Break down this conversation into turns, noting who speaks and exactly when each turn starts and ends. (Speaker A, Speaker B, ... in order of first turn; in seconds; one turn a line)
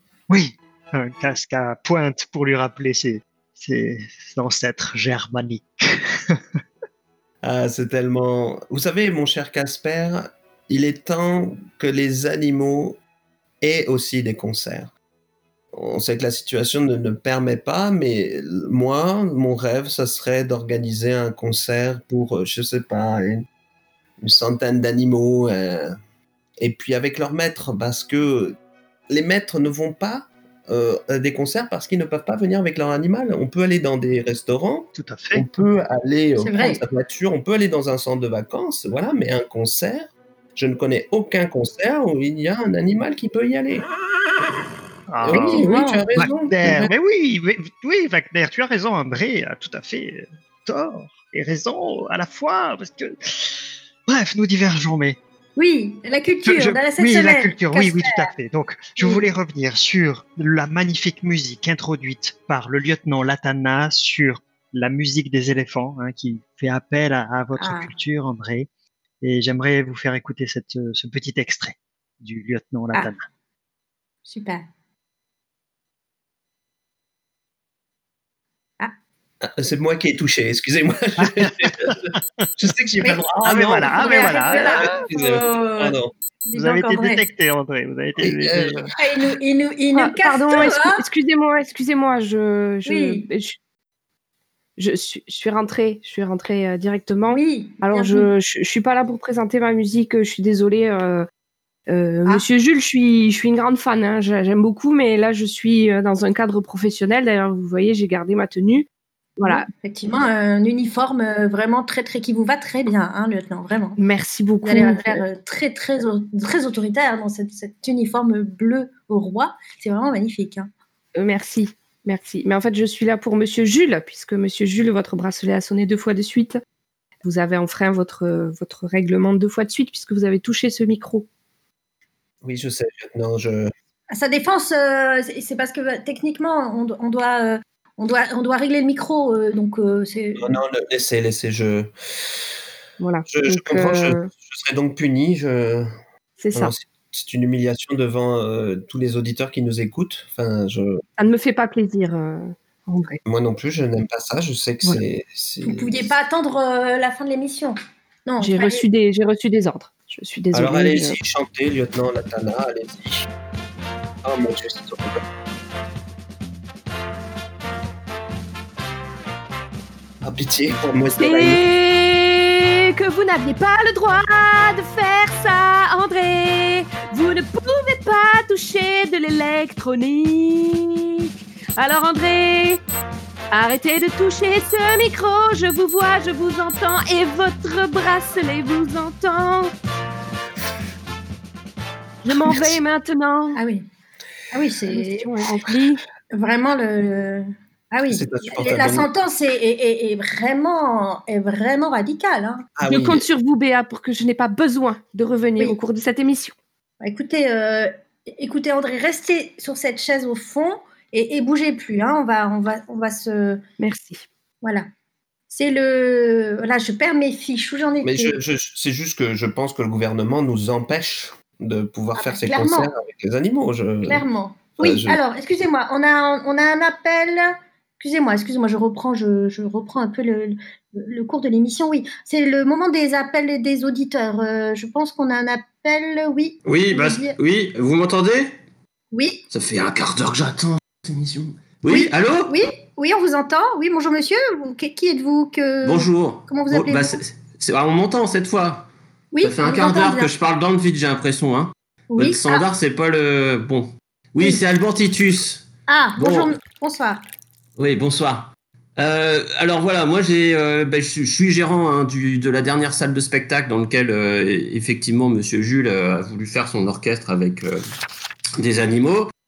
Speaker A: 0.3-6.4
Speaker B: 7.4-13.0
Speaker B: 13.6-14.9
Speaker B: 15.7-23.4
Speaker B: 24.2-25.9
Speaker B: 26.6-28.6
Speaker B: 29.1-43.9
Speaker A: 35.0-35.5
Speaker C: 36.4-36.8
Speaker A: 45.1-55.2
Speaker B: 45.2-46.9
Speaker C: 45.3-46.0
Speaker C: 55.6-58.3
Speaker A: 56.5-68.7
Speaker C: 59.0-59.2
Speaker C: 67.6-67.9
Speaker A: 69.2-73.2
Speaker C: 74.3-74.6
Speaker B: 79.4-81.9
Speaker A: 81.2-82.2
Speaker B: 82.6-86.1
Speaker A: 83.4-84.9
Speaker C: 83.9-87.2
Speaker A: 86.5-88.9
Speaker B: 88.2-88.9
Speaker C: 89.0-91.0
Speaker D: 89.9-93.6
Speaker C: 92.9-93.3
Speaker D: 94.8-101.2
Speaker C: 97.3-98.3
Speaker D: 101.9-108.9
Speaker D: 109.4-109.7
Speaker C: 109.5-114.0
Speaker D: 114.0-115.2
Speaker C: 114.6-120.7
Speaker D: 121.2-126.6
Speaker D: 127.2-131.3
Speaker B: 132.4-133.7
Speaker C: 134.1-140.6
Speaker B: 140.4-141.9
Speaker D: 143.0-144.3
Speaker B: 143.3-145.9
Speaker D: 146.4-146.7
Speaker B: 146.5-151.0
Speaker D: 151.2-153.2
Speaker B: 153.3-156.1
Speaker C: 155.7-158.9
Speaker D: 158.4-161.2
Speaker B: 160.5-163.3
Speaker B: 164.2-165.2
Speaker B: 170.2-171.6
Speaker D: 171.2-181.2
Speaker D: 181.8-182.8
Speaker D: 183.5-189.7
Speaker D: 192.2-193.6
Speaker C: 193.6-193.8
Speaker C: 194.5-195.3
Speaker D: 194.8-196.0
Speaker C: 196.3-202.7
Speaker B: 198.1-199.1
Speaker B: 202.8-203.2
Speaker D: 202.9-206.5
Speaker C: 207.0-213.6
Speaker D: 213.8-214.2
Speaker C: 215.5-218.4
Speaker B: 218.0-224.2
Speaker C: 222.2-222.9
Speaker C: 224.0-237.4
Speaker B: 224.8-225.2
Speaker E: 236.7-238.5
Speaker C: 239.1-239.4
Speaker E: 239.5-242.5
Speaker C: 241.9-247.2
Speaker E: 245.8-248.9
Speaker C: 249.3-250.3
Speaker E: 249.4-255.7
Speaker C: 252.1-252.7
Speaker C: 255.9-257.2
Speaker E: 256.2-256.5
Speaker E: 257.8-267.8
Speaker E: 268.6-269.3